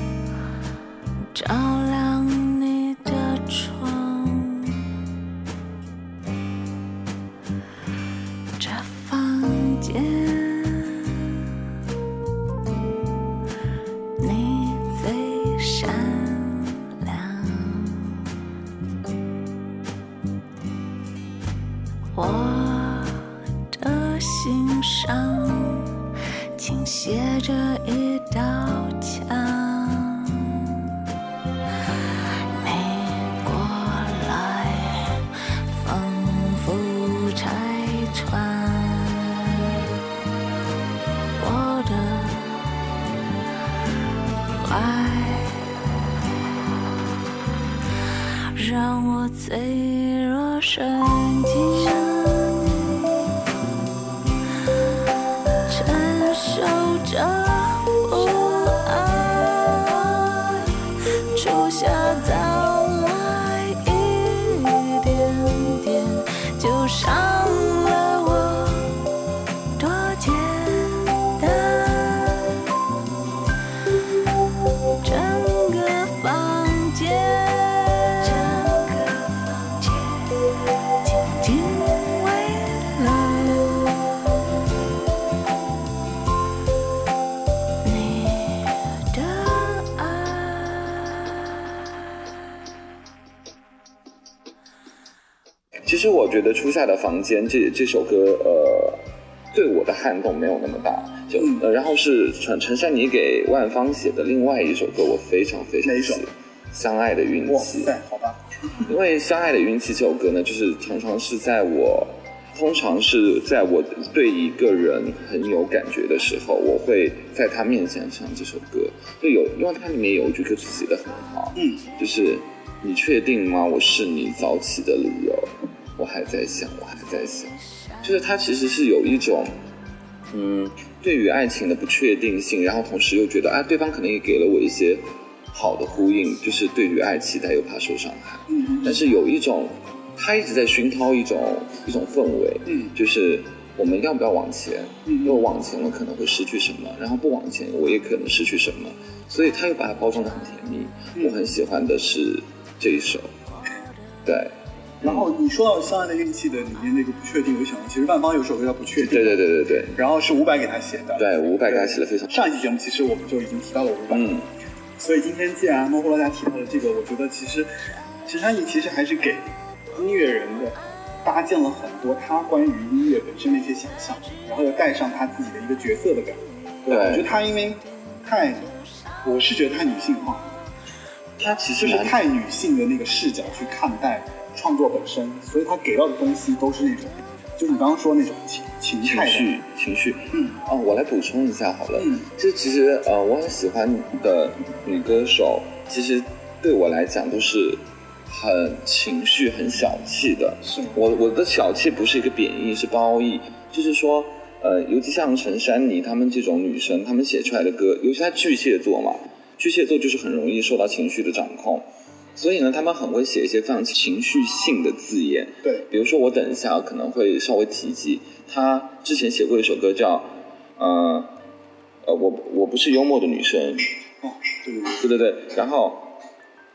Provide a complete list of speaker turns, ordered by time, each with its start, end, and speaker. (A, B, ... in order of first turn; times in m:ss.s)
0:01.3-0:04.9 A
0:08.6-0:11.4 A
0:14.2-0:18.3 A
0:22.2-0:26.0 A
0:26.6-0:30.9 A
0:32.6-0:39.8 A
0:41.4-0:42.7 A
0:44.6-0:45.7 A
0:48.5-0:53.3 A
0:55.7-1:00.8 A
1:01.3-1:09.0 A
1:09.8-1:12.8 A
1:15.0-1:20.4 A
1:21.0-1:24.3 A
1:27.8-1:31.1 A
1:35.9-1:47.9 B
1:41.4-1:41.6 C
1:45.8-1:46.2 C
1:47.5-1:48.9 C
1:48.9-2:09.5 B
2:01.6-2:01.9 C
2:10.3-2:33.3 B
2:18.5-2:19.0 C
2:22.7-2:22.9 C
2:25.1-2:25.5 C
2:31.2-2:31.4 C
2:34.2-2:35.3 B
2:35.0-2:44.4 C
2:39.0-2:40.0 B
2:41.2-2:42.4 B
2:44.1-2:44.5 B
2:45.0-3:00.5 C
2:56.9-2:57.3 B
3:01.4-3:02.2 B
3:01.8-3:09.6 C
3:09.0-3:31.9 B
3:10.3-3:10.6 C
3:12.0-3:12.3 C
3:20.6-3:21.0 C
3:32.4-3:41.4 B
3:42.0-3:43.9 B
3:44.2-3:45.0 C
3:45.0-3:46.2 B